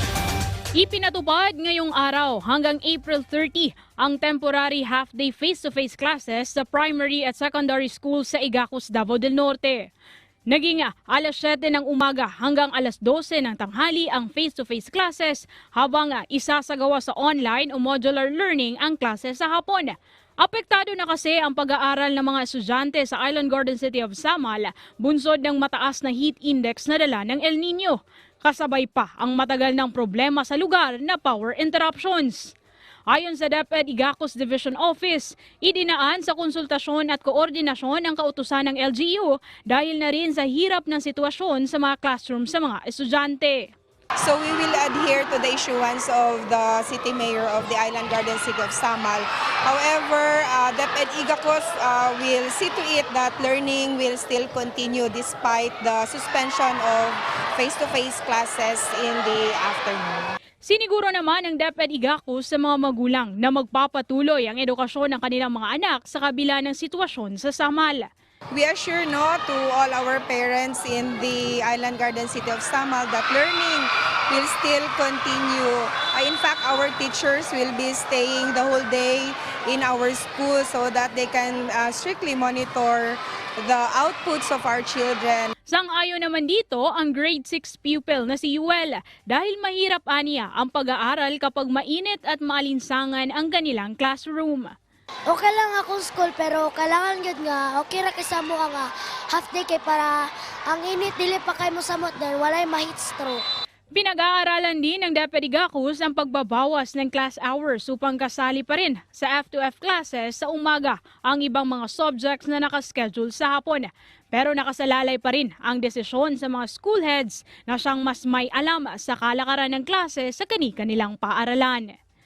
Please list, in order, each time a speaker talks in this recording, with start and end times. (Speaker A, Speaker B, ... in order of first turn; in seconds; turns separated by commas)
Speaker A: 0.8-9.8, Speaker A: 10.5-32.5, Speaker A: 33.1-43.7, Speaker B: 44.2-60.3, Speaker A: 60.6-68.1, Speaker B: 68.5-85.5, Speaker A: 85.7-94.7, Speaker C: 95.3-100.1, Speaker C: 100.7-103.4, Speaker A: 103.9-122.0